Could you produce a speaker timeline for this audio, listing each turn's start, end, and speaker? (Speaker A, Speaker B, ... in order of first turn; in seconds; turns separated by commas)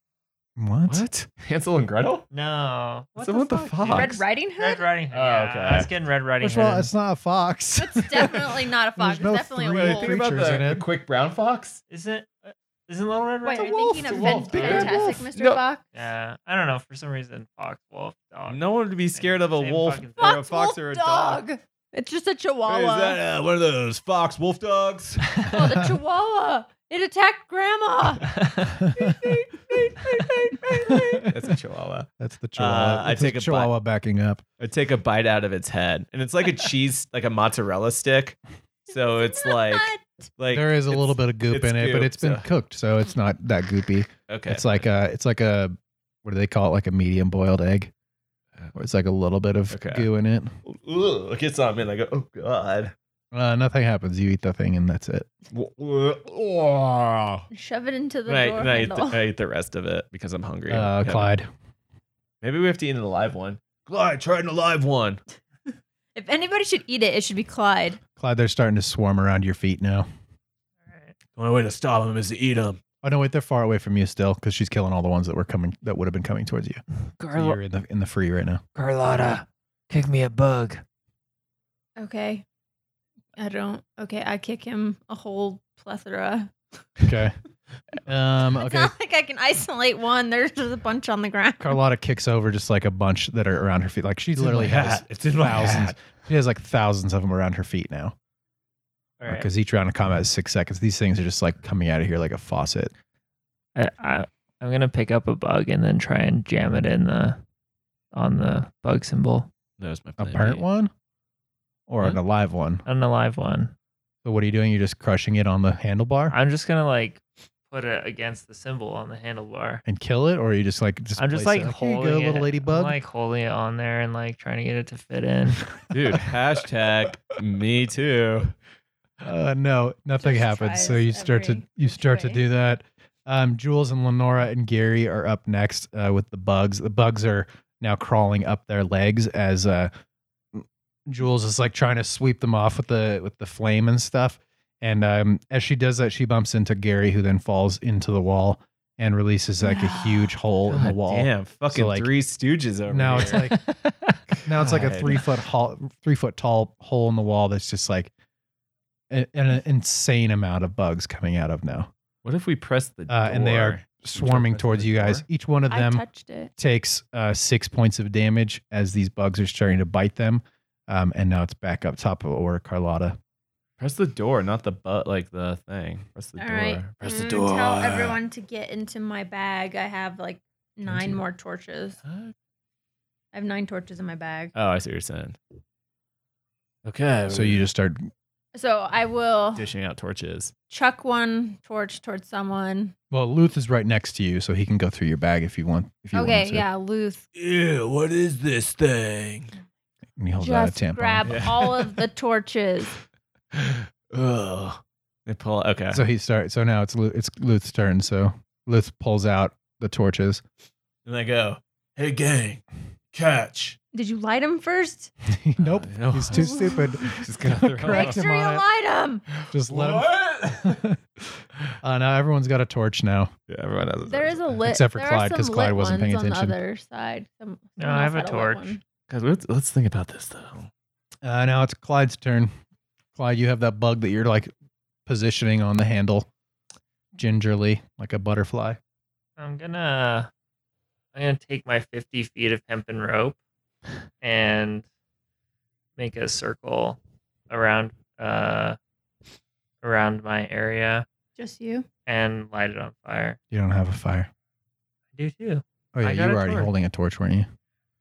Speaker A: 0.6-1.1, Speaker B: 0.9-2.2, Speaker C: 2.3-6.9, Speaker B: 3.2-4.2, Speaker D: 3.9-4.9, Speaker B: 5.1-5.9, Speaker A: 6.4-10.8, Speaker D: 7.8-10.1, Speaker B: 9.7-11.8, Speaker C: 11.9-15.0, Speaker D: 13.4-15.8, Speaker B: 13.5-15.6, Speaker A: 14.6-14.9, Speaker C: 15.9-18.6, Speaker B: 18.5-21.4, Speaker C: 19.1-20.4, Speaker D: 20.2-23.2, Speaker B: 22.6-25.4, Speaker D: 25.4-28.4, Speaker C: 28.4-28.7, Speaker A: 28.7-29.3, Speaker D: 28.9-31.3, Speaker B: 30.8-33.7, Speaker A: 30.9-31.4, Speaker A: 32.2-34.4, Speaker B: 34.6-38.4, Speaker B: 38.9-42.4, Speaker D: 38.9-40.1, Speaker A: 40.5-47.9, Speaker B: 44.3-44.8, Speaker A: 48.7-50.5, Speaker B: 49.7-50.1, Speaker B: 50.6-52.9, Speaker A: 53.3-55.3, Speaker B: 55.5-57.5, Speaker D: 57.5-59.2, Speaker B: 58.3-61.3, Speaker A: 60.7-61.5, Speaker B: 62.4-65.2, Speaker D: 66.1-68.0, Speaker A: 68.2-70.0, Speaker C: 70.9-71.1, Speaker B: 71.3-72.8, Speaker A: 73.0-76.8, Speaker C: 77.2-77.6, Speaker A: 77.3-78.6, Speaker C: 78.7-80.8, Speaker D: 82.0-82.4, Speaker D: 83.3-86.5, Speaker A: 87.0-87.3, Speaker A: 88.0-88.9, Speaker D: 88.5-91.8, Speaker A: 91.6-98.1, Speaker B: 94.4-96.0, Speaker C: 99.2-99.5, Speaker A: 99.3-102.9, Speaker C: 103.7-107.4, Speaker C: 108.1-109.5, Speaker B: 109.8-110.6, Speaker A: 110.2-110.9, Speaker A: 111.9-112.8, Speaker C: 112.8-113.7, Speaker A: 114.2-116.3, Speaker C: 116.3-119.8, Speaker A: 119.8-123.0, Speaker C: 121.2-125.6, Speaker B: 125.9-128.5, Speaker A: 129.2-139.9, Speaker D: 130.2-132.4, Speaker A: 140.5-152.1, Speaker D: 149.6-150.3, Speaker B: 150.7-153.5, Speaker A: 152.9-153.6, Speaker C: 153.6-154.2, Speaker B: 154.4-155.2, Speaker A: 154.4-158.1, Speaker A: 159.1-161.9, Speaker B: 162.2-165.2, Speaker A: 163.1-166.0, Speaker D: 165.7-166.5, Speaker A: 166.6-173.2, Speaker B: 173.8-178.2, Speaker D: 176.4-182.0, Speaker B: 182.1-182.3, Speaker D: 183.3-184.5, Speaker B: 184.5-185.4, Speaker B: 186.8-187.6, Speaker A: 187.3-188.1, Speaker D: 188.5-189.7, Speaker B: 189.6-190.5, Speaker D: 190.7-192.9, Speaker A: 193.1-196.6, Speaker D: 196.1-197.2, Speaker B: 197.3-199.5, Speaker A: 200.2-201.5, Speaker D: 200.4-202.9, Speaker B: 201.2-202.0, Speaker B: 203.5-206.0, Speaker A: 205.9-210.4, Speaker B: 211.1-212.6, Speaker B: 213.1-213.8, Speaker D: 213.9-215.1, Speaker A: 215.3-218.6, Speaker B: 215.6-218.2, Speaker D: 216.3-217.2, Speaker D: 217.9-219.2, Speaker B: 219.3-220.8, Speaker A: 219.5-223.3, Speaker B: 223.5-224.6, Speaker D: 224.1-228.8, Speaker A: 224.6-226.6, Speaker C: 227.8-228.8, Speaker B: 229.1-230.7, Speaker A: 231.2-232.5, Speaker A: 233.1-234.5, Speaker A: 235.1-236.3, Speaker A: 237.1-238.8, Speaker C: 239.4-240.3, Speaker C: 241.1-243.4, Speaker C: 244.2-244.8, Speaker C: 246.0-247.0, Speaker C: 247.5-248.8, Speaker C: 249.8-251.0, Speaker D: 251.4-251.9, Speaker C: 252.1-253.4, Speaker A: 253.5-254.3, Speaker C: 255.2-256.7, Speaker A: 255.9-257.5